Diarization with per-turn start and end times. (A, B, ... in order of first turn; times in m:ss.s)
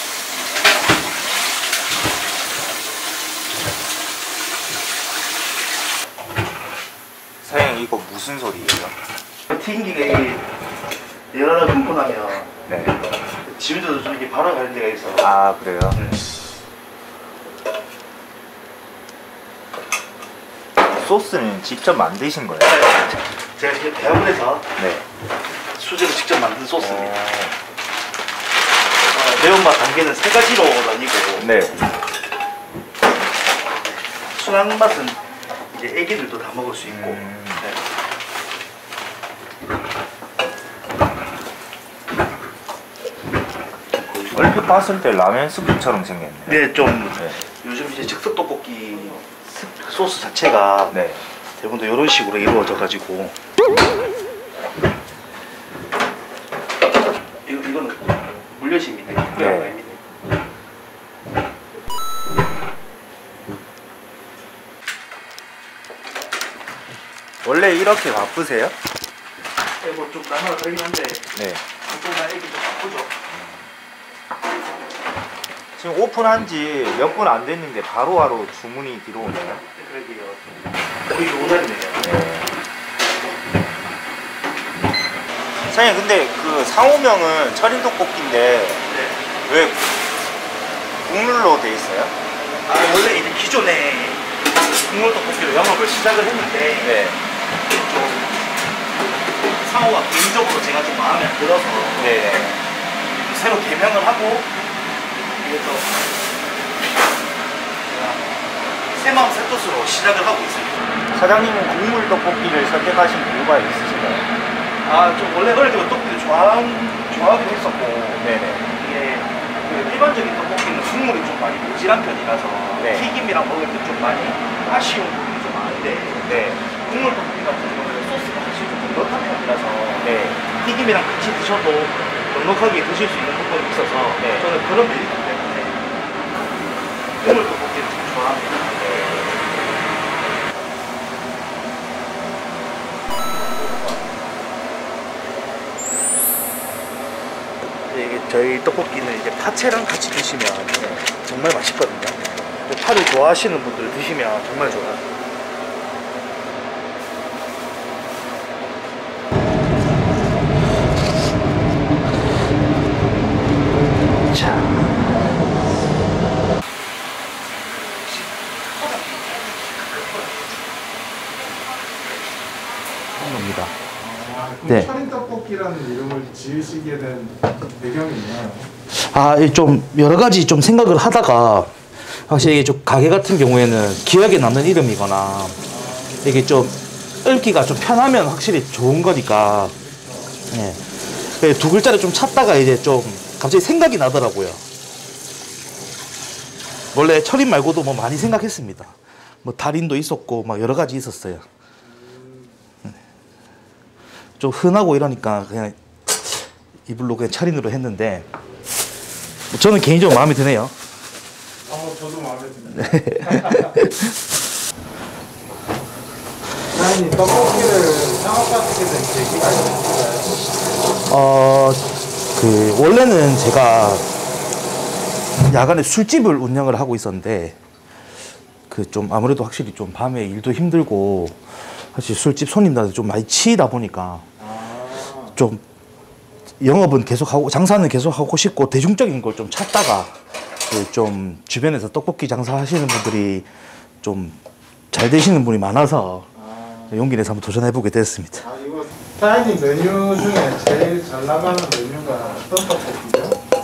0:07.4-0:09.0 A
0:09.5-0:10.4 B
0:11.3-0:12.5 B
0:12.7-0:13.0 A
0:13.5-0:15.3 B
0:15.2-0:16.0 A
0:20.9-0:22.7 A
0:22.7-0:24.7 B
0:24.8-0:25.0 A
0:25.8-0:27.3 B
0:26.8-0:27.5 A
0:29.1-0:31.5 B
0:31.4-0:31.8 A
0:34.3-0:35.2 B
0:35.7-0:37.8 B
0:36.9-0:37.6 A
0:44.0-0:44.4 B
0:44.3-0:46.6 A
0:46.5-0:51.0 B
0:50.9-0:51.2 A
0:51.6-0:53.4 B
0:57.5-1:00.0 B
0:59.4-0:59.7 A
1:07.4-1:08.8 A
1:09.8-1:13.1 B
1:11.3-1:11.6 A
1:15.8-1:19.6 A
1:19.7-1:20.4 B
1:21.1-1:22.2 B
1:22.0-1:22.5 A
1:25.7-1:28.9 A
1:28.9-1:29.3 B
1:29.4-1:29.9 A
1:31.0-1:32.1 A
1:32.7-1:34.2 B
1:34.9-1:37.0 B
1:36.8-1:37.2 A
1:37.7-1:38.4 B
1:39.6-1:42.2 B
1:42.0-1:42.6 A
1:43.1-1:44.5 B
1:45.4-1:45.9 B
1:47.9-1:48.2 B
1:49.0-1:50.8 B
1:51.1-1:54.3 A
1:54.8-2:15.8 B
1:58.2-1:58.7 A
2:02.8-2:03.1 A
2:06.2-2:06.7 A
2:10.0-2:10.5 A
2:14.2-2:14.5 A
2:17.2-2:19.3 B
2:27.9-2:35.0 B
2:44.3-2:44.9 B
2:53.1-2:53.7 B
2:54.0-2:58.7 C
2:58.9-3:01.7 B
3:02.3-3:05.6 B
3:05.7-3:06.4 C
3:06.2-3:09.7 B
3:10.5-3:14.6 B
3:16.9-3:21.4 B
3:21.8-3:22.6 C
3:24.4-3:28.3 B
3:29.5-3:30.7 B
3:31.7-3:33.8 C
3:32.9-3:34.0 B
3:36.7-3:40.4 C
3:41.1-3:44.0 B
3:45.5-3:47.6 B
3:48.7-3:54.2 B
3:54.4-3:55.4 C
3:55.4-3:55.6 B
3:56.6-4:03.5 B
4:04.0-4:04.4 B
4:04.9-4:06.3 B
4:06.4-4:07.0 C
4:06.9-4:08.4 B
4:08.4-4:13.4 C